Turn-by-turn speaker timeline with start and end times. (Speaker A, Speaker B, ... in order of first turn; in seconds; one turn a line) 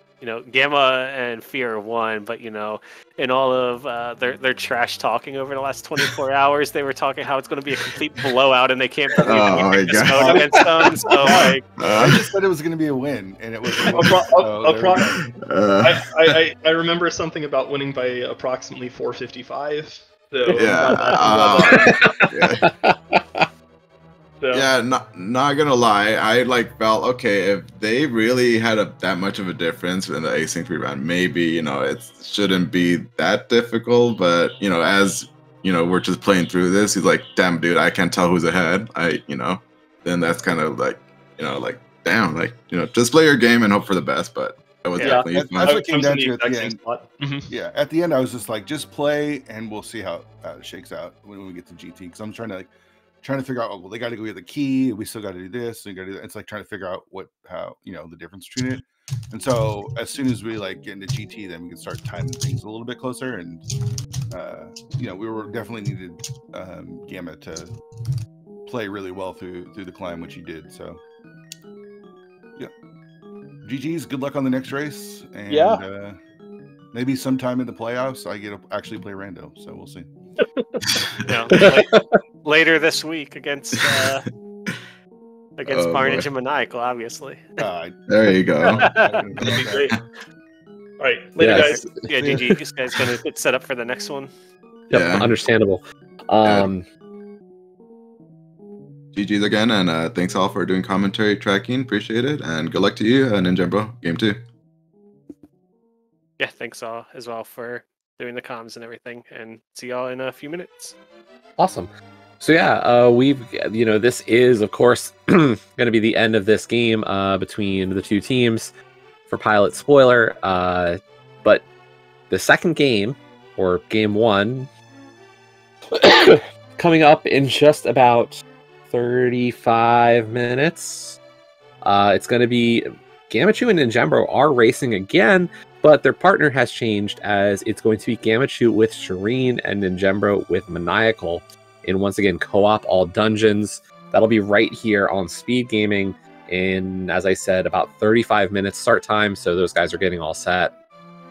Speaker A: 0.2-11.6
Speaker B: 9.2-10.4
Speaker C: 10.2-15.3
Speaker B: 11.2-12.3
Speaker D: 13.9-15.2
Speaker B: 15.3-16.3
Speaker D: 15.8-22.2
Speaker B: 20.5-22.7
Speaker C: 20.6-21.6
Speaker E: 21.8-23.5
Speaker D: 24.4-24.7
Speaker B: 24.5-45.8
Speaker D: 45.0-47.5
Speaker C: 45.0-46.8
Speaker C: 47.5-52.7
Speaker C: 53.2-63.6
Speaker C: 64.3-67.7
Speaker C: 68.7-71.0
Speaker C: 73.6-76.2
Speaker D: 75.5-75.8
Speaker C: 76.9-80.1
Speaker A: 81.2-84.3
Speaker E: 81.5-82.0
Speaker A: 85.6-87.5
Speaker B: 85.7-86.3
Speaker C: 87.6-88.0
Speaker B: 88.1-88.9
Speaker A: 88.7-89.2
Speaker C: 88.8-89.9
Speaker D: 89.4-90.0
Speaker D: 91.0-91.9
Speaker E: 91.4-92.4
Speaker A: 91.6-94.3
Speaker E: 94.9-96.8
Speaker B: 94.9-95.3
Speaker B: 99.1-104.4
Speaker A: 106.4-110.9
Speaker E: 111.6-118.7
Speaker E: 119.3-121.6
Speaker E: 122.3-124.7
Speaker E: 125.9-131.2
Speaker E: 131.8-150.7